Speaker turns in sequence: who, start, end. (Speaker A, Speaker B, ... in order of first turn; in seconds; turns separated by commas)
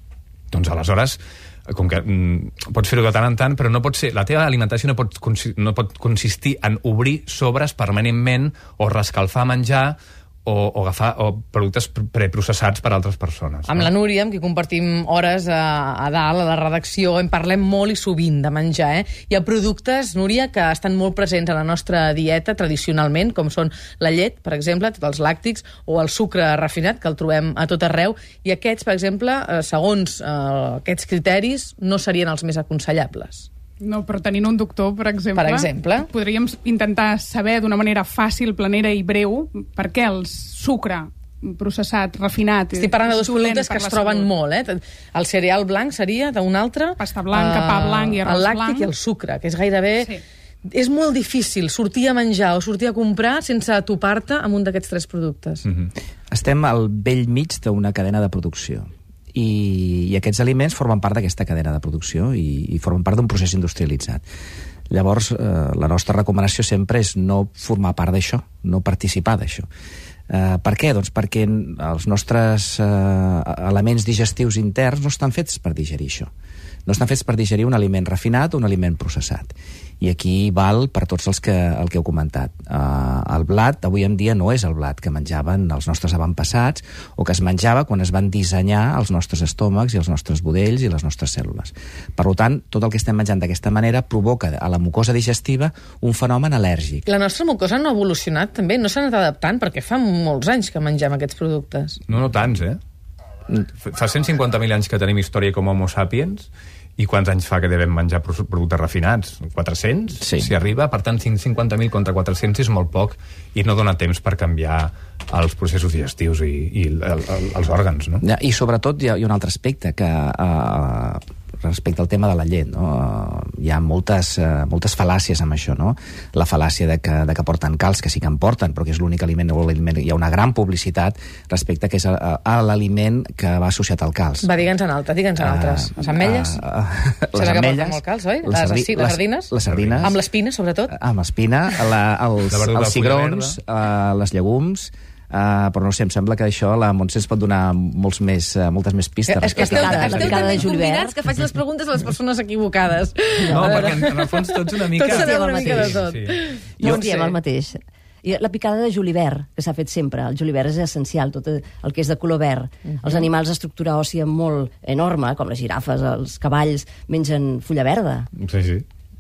Speaker A: 0.5-13.9, Speaker B: 13.7-33.5, Speaker C: 33.8-44.3, Speaker B: 35.4-36.1, Speaker B: 42.8-50.1, Speaker C: 47.0-48.9, Speaker B: 50.7-55.7, Speaker D: 56.3-64.2, Speaker D: 64.9-69.7, Speaker D: 70.3-76.3, Speaker D: 76.9-97.1, Speaker B: 97.1-102.0, Speaker A: 102.1-102.8, Speaker A: 103.8-118.2, Speaker D: 110.2-110.5, Speaker D: 118.2-134.5, Speaker B: 134.4-136.6, Speaker D: 135.4-140.1, Speaker B: 137.3-139.5, Speaker A: 139.7-140.1, Speaker B: 140.0-140.9, Speaker D: 140.9-150.5, Speaker A: 142.5-143.6, Speaker B: 149.3-157.4, Speaker E: 149.5-151.2, Speaker E: 153.4-154.0, Speaker A: 153.5-156.4, Speaker E: 155.1-156.0, Speaker E: 156.8-168.3, Speaker A: 168.4-168.8